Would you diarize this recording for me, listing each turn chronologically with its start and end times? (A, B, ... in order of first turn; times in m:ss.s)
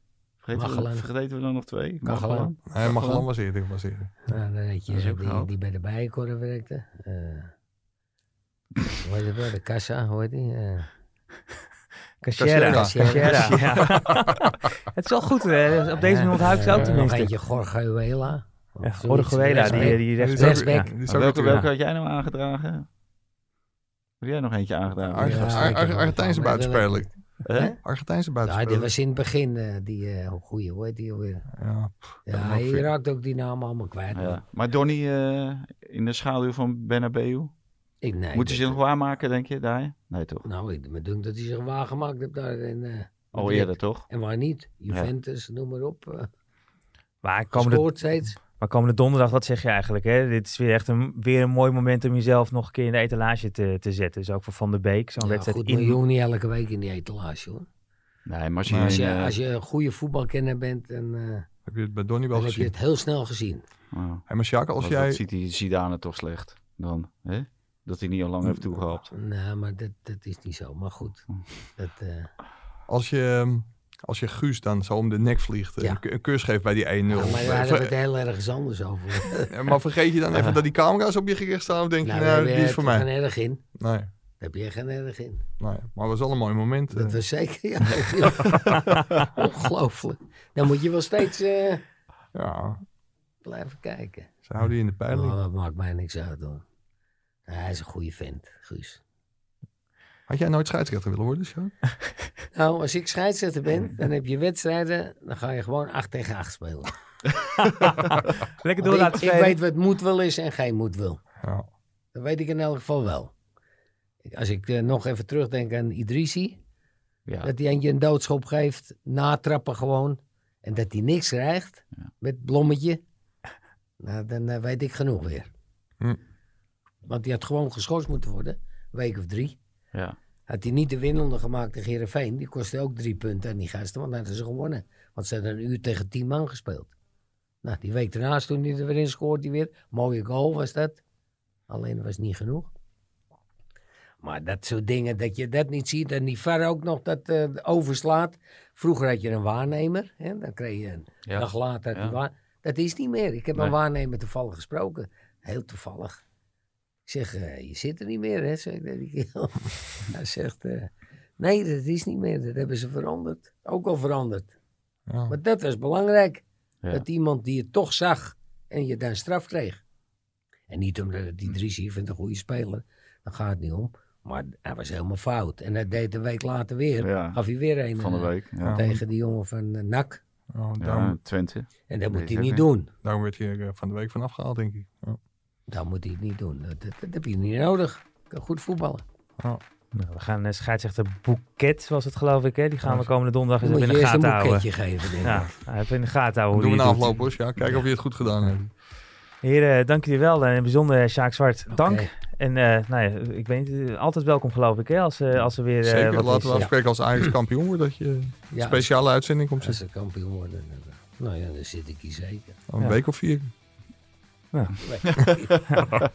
0:00.4-0:03.3 A
0:00.5-0:01.1 B
0:02.0-0:02.5 B
0:02.7-0:04.2 C
0:04.3-0:07.5 B
0:04.9-0:05.5 A
0:09.0-0:10.9 B
0:12.2-0:17.3 D
0:12.4-0:14.5 C
0:12.6-0:13.7 B
0:15.9-0:20.9 B
0:18.8-0:20.9 D
0:19.6-0:21.7 C
0:21.1-0:22.9 A
0:24.2-0:25.8 A
0:25.1-0:27.1 C
0:25.2-0:27.8 B
0:27.4-0:27.7 A
0:27.7-0:28.9 C
0:28.4-0:31.5 B
0:31.5-0:32.9 C
0:32.3-0:34.4 B
0:34.1-0:37.5 A
0:38.0-0:38.8 B
0:38.3-0:40.4 A
0:40.4-0:46.3 B
0:43.3-0:44.1 A
0:47.2-0:56.0 D
0:47.5-0:48.4 B
0:55.2-0:57.7 B
0:58.3-0:59.4 A
0:58.7-0:59.0 C
0:58.8-1:01.5 B
1:01.7-1:02.7 C
1:02.3-1:03.6 B
1:03.9-1:04.2 A
1:04.3-1:05.2 C
1:04.8-1:09.1 A
1:08.4-1:08.8 C
1:09.1-1:12.3 B
1:11.3-1:11.6 A
1:12.9-1:17.9 C
1:17.1-1:19.5 B
1:19.5-1:23.1 C
1:22.0-1:23.6 B
1:23.8-1:24.1 C
1:24.4-1:25.4 B
1:25.6-1:27.2 C
1:26.9-1:31.8 B
1:32.3-1:32.8 C
1:33.4-1:34.3 B
1:34.4-1:35.4 C
1:35.1-1:36.6 B
1:37.5-1:39.0 B
1:40.3-1:41.7 C
1:42.5-1:46.9 B
1:48.6-1:49.6 D
1:48.8-1:51.2 B
1:51.4-1:51.7 C
1:52.1-1:53.3 B
1:54.3-1:56.6 B
1:57.4-2:03.0 B
2:04.0-2:05.5 B
2:07.1-2:09.6 B
2:10.5-2:16.9 B
2:17.6-2:21.0 B
2:21.7-2:22.7 B
2:24.2-2:36.2 B
2:31.3-2:32.2 A
2:37.1-2:44.5 B
2:45.1-2:45.4 C
2:45.3-2:49.8 B
2:50.7-3:00.2 B
2:57.0-2:57.4 A
2:58.0-2:58.8 A
2:58.6-2:59.0 C
3:00.5-3:01.2 C
3:00.8-3:02.6 A
3:01.9-3:02.9 B
3:03.0-3:05.2 C
3:05.7-3:09.0 B
3:09.9-3:14.7 D
3:13.6-3:15.5 B
3:15.2-3:17.2 D
3:16.5-3:18.7 C
3:19.4-3:26.7 D
3:21.7-3:22.1 B
3:25.8-3:29.8 C
3:26.5-3:27.3 B
3:28.5-3:29.0 B
3:29.6-3:32.6 B
3:32.7-3:33.5 C
3:34.5-3:34.8 D
3:34.8-3:35.6 B
3:35.3-3:35.6 A
3:35.7-3:36.0 D